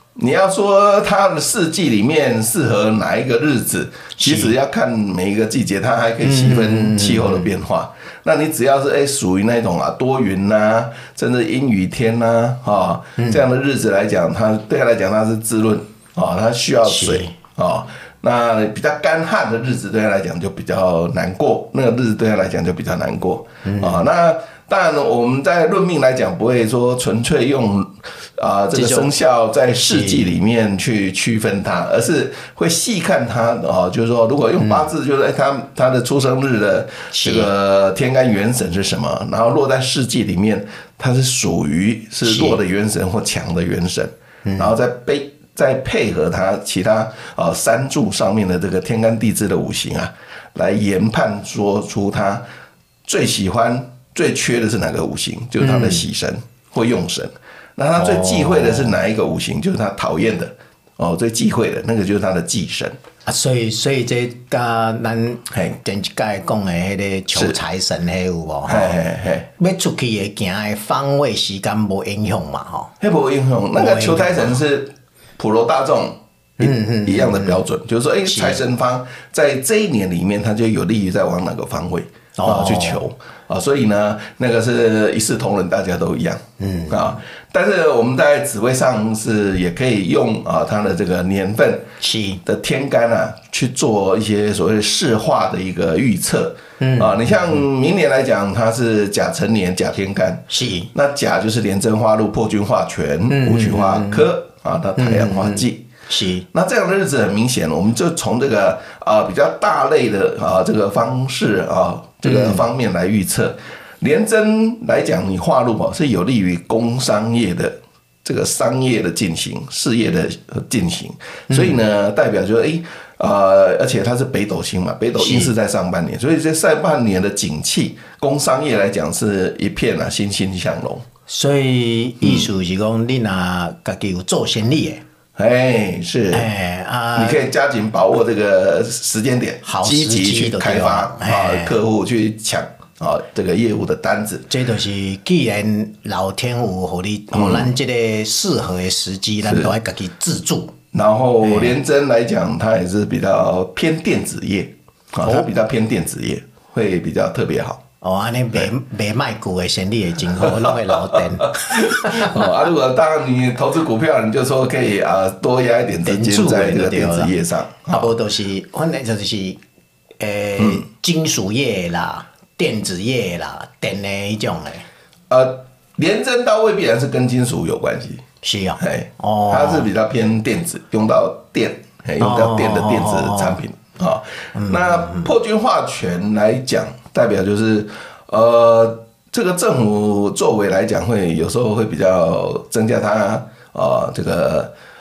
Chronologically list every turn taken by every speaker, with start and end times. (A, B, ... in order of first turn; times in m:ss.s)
0:00.2-0:52.4 A
0:04.2-0:04.5 B
0:06.2-0:07.5 B
0:13.2-0:13.4 B
0:16.8-0:17.4 B
0:23.6-0:24.0 B
0:28.7-0:29.1 B
0:29.8-0:30.3 B
0:34.6-0:34.9 B
0:37.1-0:37.5 B
0:42.2-0:42.6 B
0:44.4-0:44.7 B
0:53.1-1:03.0 A
0:55.6-0:56.1 B
0:58.0-0:59.0 B
1:03.3-1:09.0 B
1:05.5-1:05.8 A
1:08.7-1:09.5 A
1:09.6-1:12.9 B
1:13.0-1:31.9 A
1:13.7-1:14.6 B
1:16.6-1:17.6 B
1:18.3-1:18.6 B
1:22.4-1:23.0 B
1:26.6-1:27.1 B
1:32.0-1:32.4 B
1:32.4-1:45.9 A
1:36.8-1:37.6 B
1:40.5-1:40.9 B
1:43.3-1:44.3 B
1:45.0-1:46.5 B
1:46.5-2:11.0 A
1:52.2-1:52.6 B
2:01.5-2:01.8 B
2:05.2-2:05.5 B
2:11.3-2:15.0 B
2:12.2-2:12.5 A
2:15.4-2:16.5 A
2:16.3-2:17.4 B
2:17.2-2:24.5 A
2:19.6-2:21.8 B
2:24.5-2:30.8 B
2:27.3-2:27.7 A
2:29.4-2:29.7 A
2:30.9-2:37.8 A
2:31.4-2:31.8 B
2:35.2-2:35.5 B
2:38.0-2:42.5 B
2:40.4-2:48.1 A
2:46.0-2:47.3 B
2:47.9-2:49.6 B
2:50.2-2:54.9 B
2:50.6-2:50.8 A
2:55.3-2:58.2 A
2:58.4-2:59.9 B
2:58.8-3:14.7 A
3:02.2-3:03.6 B
3:04.6-3:05.3 B